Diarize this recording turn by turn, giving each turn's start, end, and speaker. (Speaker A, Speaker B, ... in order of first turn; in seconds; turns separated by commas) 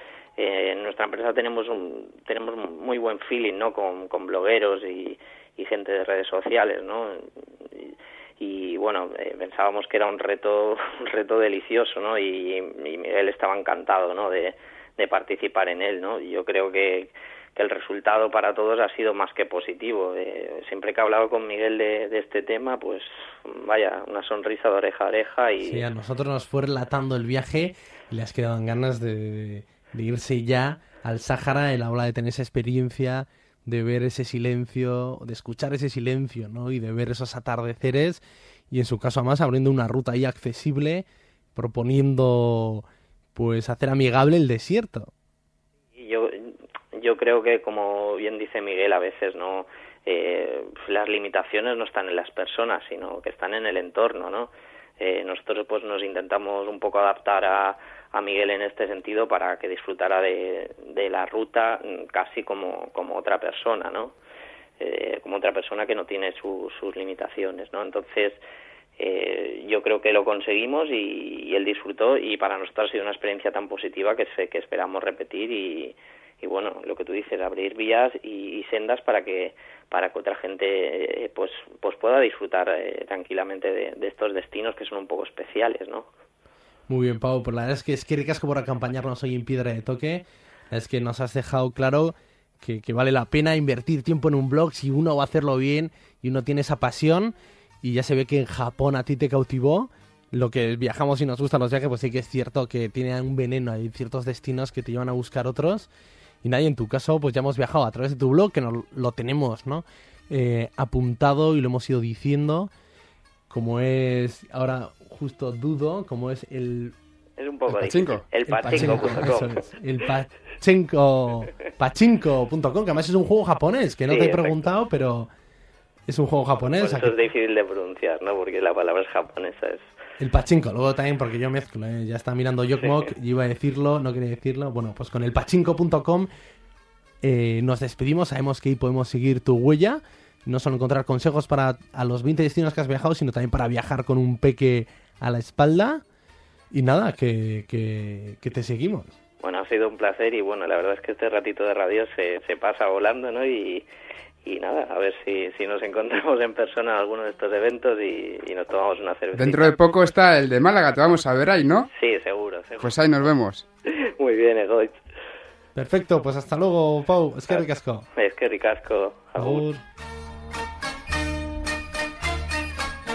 Speaker A: 0.4-25.8, Speaker B: 25.6-45.1, Speaker A: 46.0-64.1, Speaker A: 64.8-68.4, Speaker A: 69.0-86.1, Speaker B: 86.9-105.9, Speaker B: 106.4-112.7, Speaker B: 113.5-117.0, Speaker A: 117.4-119.6, Speaker C: 117.7-119.3, Speaker B: 118.5-125.3, Speaker A: 124.1-124.6, Speaker B: 126.1-127.2, Speaker A: 126.8-129.8, Speaker B: 130.2-136.3, Speaker B: 137.2-146.0, Speaker B: 146.7-149.1, Speaker A: 149.4-153.8, Speaker A: 154.4-160.1, Speaker C: 159.3-161.9, Speaker A: 161.9-162.9, Speaker C: 162.8-163.7, Speaker A: 163.8-165.0, Speaker B: 165.7-168.1, Speaker A: 167.5-169.6, Speaker B: 169.3-169.8